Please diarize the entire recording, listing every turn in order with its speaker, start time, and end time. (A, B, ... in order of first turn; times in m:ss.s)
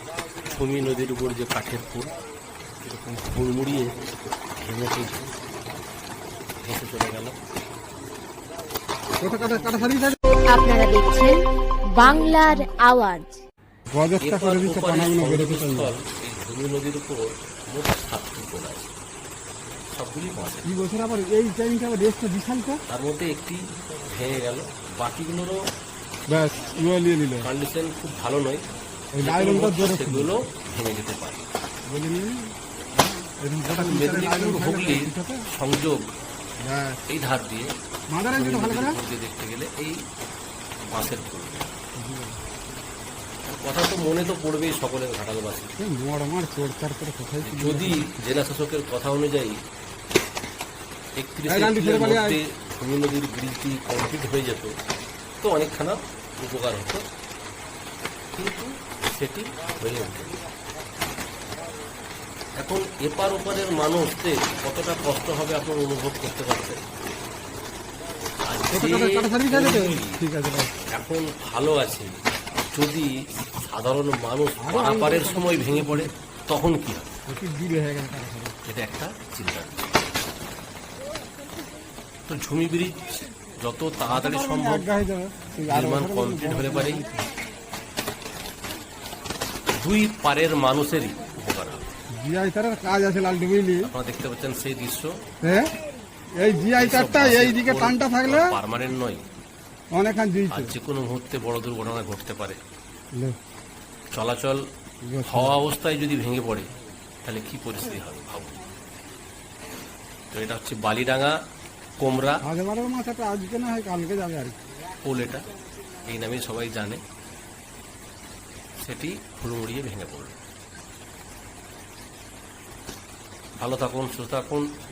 0:00.4-0:02.1 A
0:02.8-0:04.0 A
0:04.6-0:05.3 A
0:06.6-0:07.4 A
0:09.2-0:10.2 B
0:10.5-0:11.4 C
0:11.9-0:13.4 C
0:13.9-0:15.9 B
0:14.2-0:19.0 A
0:20.0-0:20.7 A
0:20.6-0:22.8 B
0:22.9-0:25.6 A
0:26.3-0:27.5 B
0:27.4-0:28.6 A
0:29.1-0:30.3 B
0:29.2-0:31.4 A
0:31.9-0:32.5 B
0:33.4-0:35.4 B
0:33.7-0:36.0 A
0:36.6-0:37.0 B
0:37.1-0:37.7 A
0:38.1-0:39.0 B
0:38.3-0:40.0 A
0:40.9-0:41.7 A
0:42.0-0:42.4 B
0:43.5-0:45.7 A
0:45.8-0:48.1 B
0:47.4-0:49.6 A
0:51.2-0:54.7 A
0:51.5-0:52.4 B
0:55.4-0:57.0 A
0:58.3-1:00.4 A
1:02.6-1:06.8 A
1:08.4-1:10.2 A
1:08.7-1:10.7 B
1:10.9-1:12.1 A
1:12.7-1:17.1 A
1:14.6-1:16.1 B
1:17.3-1:18.6 B
1:18.6-1:19.8 A
1:22.3-1:24.9 A
1:24.1-1:27.1 B
1:25.7-1:27.0 A
1:29.8-1:31.9 A
1:32.2-1:33.9 B
1:33.8-1:35.1 A
1:35.4-1:35.7 B
1:36.4-1:38.5 B
1:36.8-1:39.2 A
1:39.9-1:40.7 B
1:40.5-1:42.6 A
1:44.1-1:44.6 A
1:45.0-1:45.6 B
1:45.2-1:46.7 A
1:47.2-1:48.6 A
1:50.3-1:51.3 A
1:52.0-1:52.4 A
1:52.4-1:54.6 B
1:55.0-1:55.4 A
1:56.0-1:57.0 A
1:58.8-2:00.4 A
2:03.6-2:04.6 A